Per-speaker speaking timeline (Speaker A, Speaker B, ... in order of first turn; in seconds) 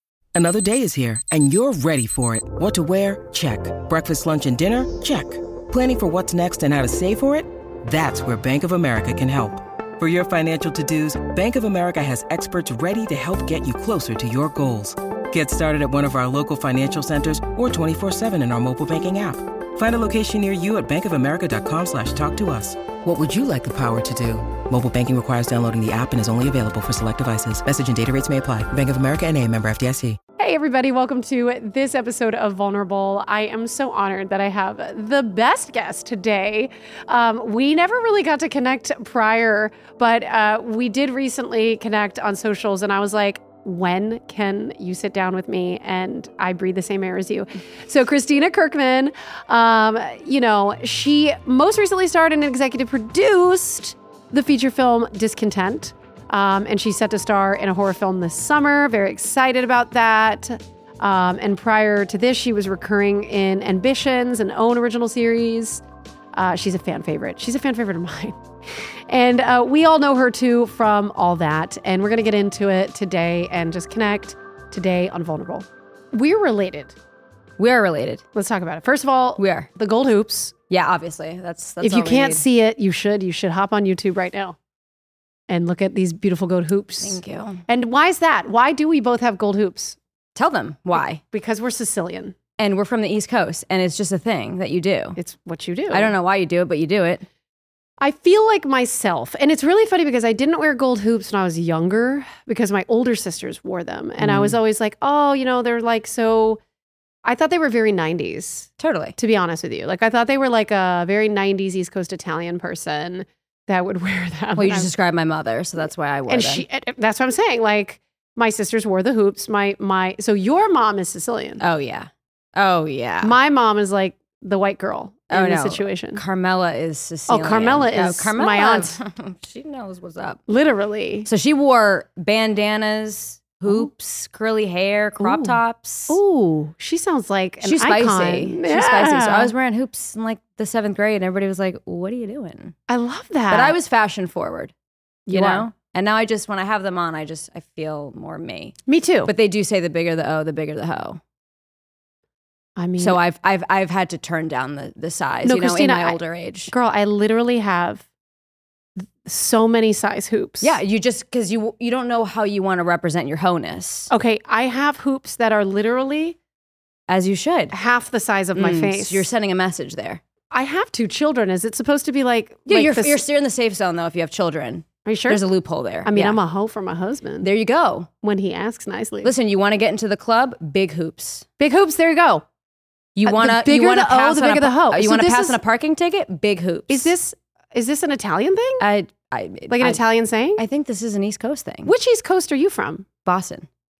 Speaker A: 0.3-30.2
Speaker B: 30.4-65.8, 66.3-77.0, 78.3-80.5, 81.8-84.6, 85.5-90.0, 91.0-92.4, 95.2-96.1, 98.0-106.6, 107.2-114.9, 116.3-121.6, 123.2-126.2, 127.3-129.0, 130.5-131.3, 135.2-139.5, 142.9-143.8, 145.3-145.7, 148.9-149.3, 152.8-153.2, 155.4-158.1, 159.0-160.7, 164.1-166.4, 167.7-169.3, 170.5-173.2, 175.1-175.4, 176.1-177.5, 178.2-179.3, 181.6-182.4, 183.2-185.6, 186.9-188.8, 189.7-190.6, 191.8-193.1
Speaker C: 77.6-78.2, 79.4-79.7, 80.7-82.4, 87.0-87.6, 90.3-91.2, 92.6-95.2, 95.9-97.2, 104.2-104.5, 108.8-109.2, 114.6-116.7, 121.6-123.3, 125.3-130.4, 131.2-136.2, 137.6-142.8, 143.5-144.7, 145.3-151.2, 153.0-156.7, 160.6-164.1, 167.1-167.8, 168.6-170.2, 172.7-176.4, 177.4-178.1, 179.2-181.4, 183.2-187.1, 188.8-190.0, 190.6-191.9, 193.2-193.7